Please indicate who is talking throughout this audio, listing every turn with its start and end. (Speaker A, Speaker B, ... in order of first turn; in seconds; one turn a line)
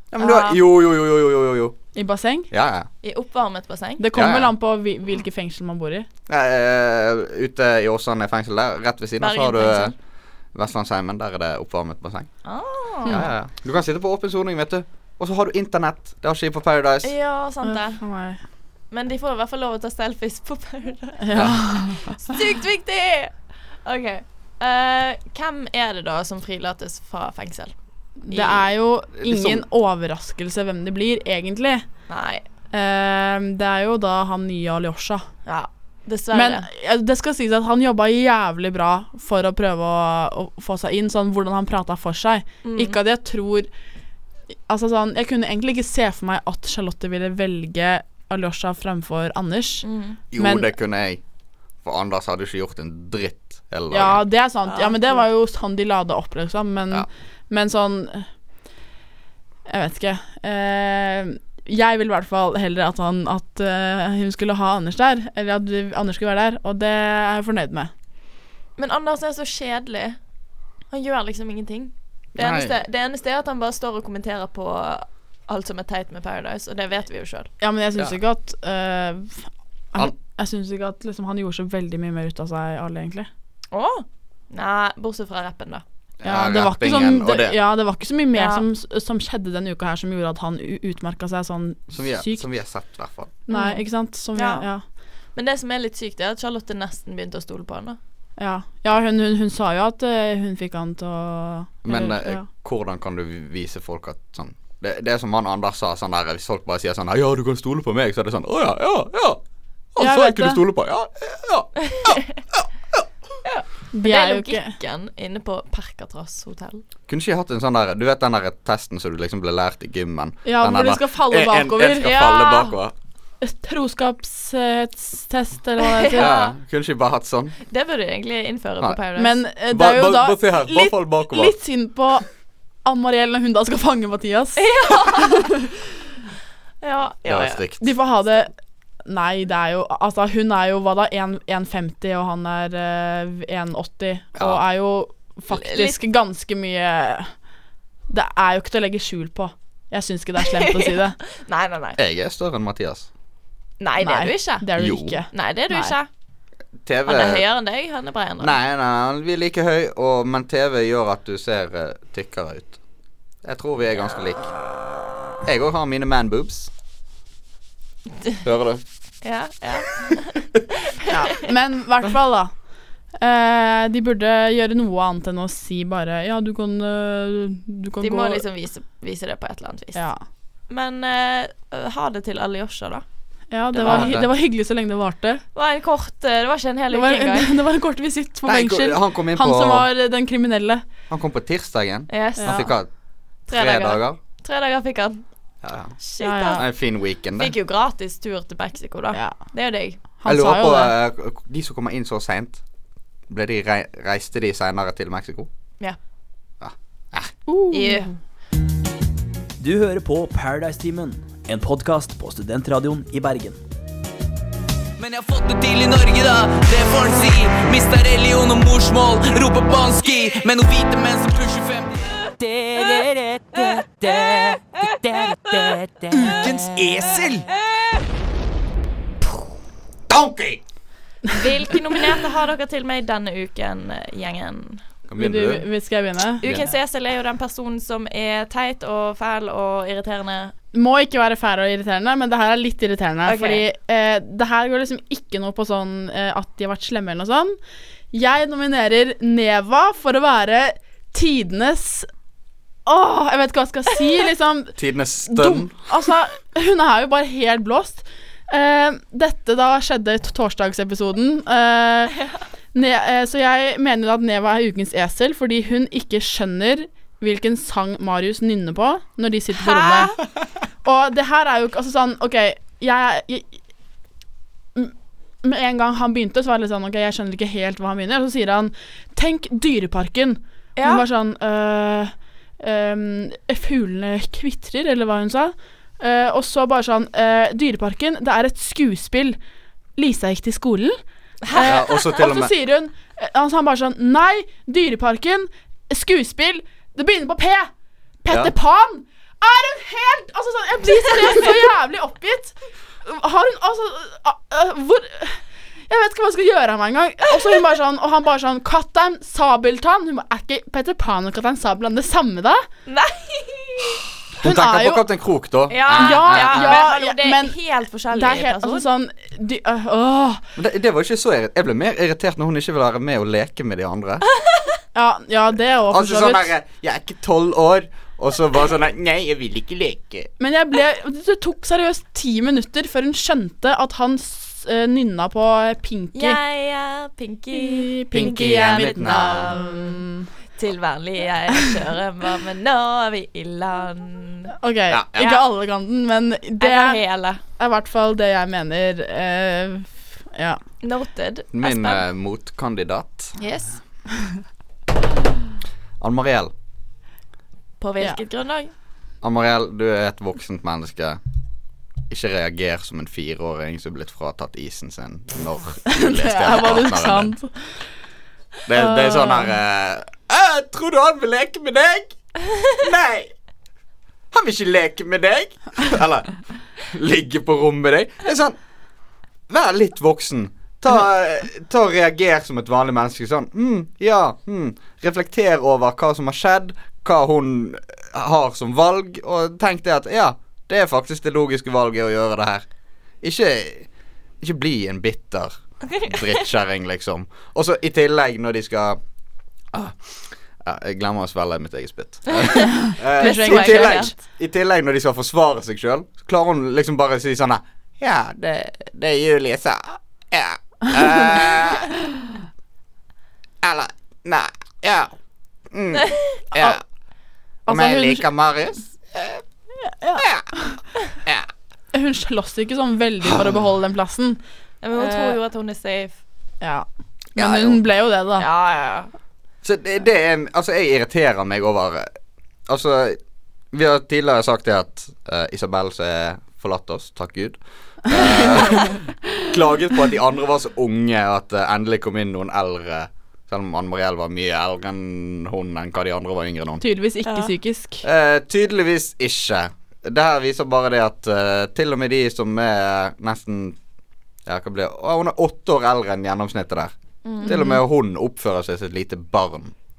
Speaker A: 0.1-1.8
Speaker B: 0.2-0.6
Speaker C: 1.9-2.5
Speaker A: 2.5-2.9
Speaker B: 3.0-4.0
Speaker C: 4.0-6.1
Speaker A: 4.1-4.5
Speaker A: 6.3-9.9
Speaker B: 9.2-9.9
Speaker A: 10.5-12.3
Speaker B: 12.4-13.2
Speaker A: 13.1-17.1
Speaker B: 17.0-18.0
Speaker C: 17.6-18.4
Speaker B: 18.9-27.7
Speaker C: 21.2-21.9
Speaker A: 21.3-21.6
Speaker C: 28.2-31.8
Speaker A: 29.1-29.6
Speaker B: 32.1-32.4
Speaker C: 32.7-35.2
Speaker B: 35.5-36.7
Speaker C: 36.3-43.7
Speaker B: 42.6-43.0
Speaker C: 44.7-49.8
Speaker B: 49.8-50.2
Speaker A: 50.3-51.2
Speaker C: 50.4-50.7
Speaker A: 51.8-54.2
Speaker C: 53.9-58.3
Speaker B: 54.6-55.2
Speaker C: 59.6-67.9
Speaker B: 68.8-70.2
Speaker B: 70.9-77.5
Speaker A: 72.4-72.8
Speaker C: 77.6-83.3
Speaker B: 83.7-85.8
Speaker A: 86.2-87.6
Speaker C: 86.2-92.4
Speaker B: 88.3-88.6
Speaker A: 91.9-93.3
Speaker C: 93.5-94.8
Speaker B: 93.5-93.8
Speaker B: 94.3-94.7
Speaker B: 95.3-98.0
Speaker C: 98.4-102.4
Speaker A: 101.8-109.4
Speaker A: 109.9-113.0
Speaker C: 110.0-110.6
Speaker B: 113.4-116.8
Speaker C: 113.9-114.7
Speaker A: 117.1-122.9
Speaker C: 120.4-122.1
Speaker B: 122.0-122.8
Speaker C: 123.4-126.3
Speaker B: 125.8-126.5
Speaker A: 126.1-127.5
Speaker B: 127.7-129.4
Speaker C: 129.2-132.3
Speaker A: 129.7-131.6
Speaker C: 132.8-135.5
Speaker B: 134.6-135.4
Speaker B: 136.8-137.6
Speaker A: 137.2-138.0
Speaker C: 137.8-138.5
Speaker C: 139.1-147.3
Speaker A: 144.4-144.6
Speaker B: 145.5-146.0
Speaker C: 148.1-151.2
Speaker B: 150.6-152.0
Speaker A: 152.0-153.1
Speaker B: 153.8-154.7
Speaker C: 154.0-156.0
Speaker A: 154.8-155.2
Speaker B: 155.3-156.1
Speaker A: 156.8-157.4
Speaker B: 157.1-158.6
Speaker A: 158.4-162.8
Speaker A: 163.4-164.6
Speaker A: 165.4-166.7
Speaker A: 168.4-168.8
Speaker B: 169.2-170.4
Speaker C: 171.1-172.5
Speaker C: 173.2-178.4
Speaker B: 178.0-180.1
Speaker C: 179.9-180.2
Speaker B: 180.7-183.0
Speaker C: 183.5-185.4
Speaker A: 183.7-184.3
Speaker B: 183.8-184.2
Speaker B: 185.5-187.6
Speaker C: 186.9-190.8
Speaker A: 188.4-189.9
Speaker A: 191.1-192.9
Speaker B: 192.1-192.7
Speaker C: 192.4-192.7
Speaker A: 193.5-194.2
Speaker B: 193.5-195.2
Speaker A: 195.6-195.9
Speaker B: 196.0-196.7
Speaker C: 196.2-196.6
Speaker A: 196.6-197.5
Speaker B: 197.3-200.0
Speaker C: 200.2-200.9
Speaker A: 200.2-202.6
Speaker A: 203.3-205.5
Speaker A: 206.6-207.3
Speaker C: 207.5-208.2
Speaker B: 207.7-208.1
Speaker D: 209.6-213.6
Speaker E: 215.0-227.4
Speaker A: 230.1-230.6
Speaker B: 231.3-234.8
Speaker A: 235.1-235.7
Speaker C: 235.2-236.4
Speaker A: 236.4-236.7
Speaker B: 236.4-240.5
Speaker C: 240.7-247.6
Speaker B: 243.2-243.6
Speaker C: 248.1-252.1
Speaker C: 252.8-262.2
Speaker A: 254.8-255.7
Speaker C: 262.7-270.1
Speaker B: 269.6-270.1
Speaker C: 270.8-273.5
Speaker C: 274.7-289.4
Speaker B: 280.8-281.0
Speaker C: 290.0-291.0
Speaker B: 291.4-291.8
Speaker C: 291.5-297.7
Speaker A: 291.6-292.5
Speaker C: 298.2-312.6
Speaker B: 312.9-314.0
Speaker A: 314.4-316.8
Speaker C: 314.4-315.1
Speaker B: 315.7-318.9
Speaker C: 315.9-317.6
Speaker C: 318.1-320.4
Speaker A: 320.6-324.2
Speaker B: 324.4-324.8
Speaker C: 324.9-326.5
Speaker A: 325.9-330.3
Speaker C: 330.4-336.4
Speaker B: 336.1-340.0
Speaker C: 337.5-340.3
Speaker A: 338.1-339.6
Speaker B: 340.6-344.5
Speaker C: 344.6-347.0
Speaker A: 344.9-345.3
Speaker B: 345.2-345.4
Speaker B: 346.6-347.4
Speaker C: 347.6-350.6
Speaker B: 350.8-352.0
Speaker A: 351.5-353.3
Speaker B: 353.4-353.8
Speaker A: 356.0-356.5
Speaker B: 357.8-358.7
Speaker A: 359.2-361.2
Speaker A: 362.1-367.3
Speaker C: 365.9-367.6
Speaker A: 368.7-373.3
Speaker C: 368.7-369.5
Speaker A: 374.3-376.4
Speaker A: 376.9-378.6
Speaker A: 379.5-392.6
Speaker A: 393.2-393.9
Speaker A: 394.4-399.0
Speaker B: 395.9-396.4
Speaker A: 399.7-411.9
Speaker B: 402.3-404.1
Speaker C: 402.9-404.1
Speaker A: 413.6-415.1
Speaker A: 415.7-416.8
Speaker C: 416.5-416.8
Speaker C: 417.6-418.2
Speaker A: 417.7-419.4
Speaker C: 419.8-420.8
Speaker A: 420.2-420.4
Speaker C: 421.9-424.4
Speaker B: 424.8-426.2
Speaker C: 424.9-425.4
Speaker C: 426.6-428.4
Speaker A: 427.4-427.9
Speaker B: 428.4-429.1
Speaker A: 429.6-432.1
Speaker A: 432.7-433.2
Speaker A: 433.7-446.8
Speaker C: 446.8-448.0
Speaker B: 447.2-447.5
Speaker A: 448.0-453.8
Speaker A: 454.4-456.9
Speaker B: 457.2-457.6
Speaker A: 457.4-459.7
Speaker C: 457.4-457.8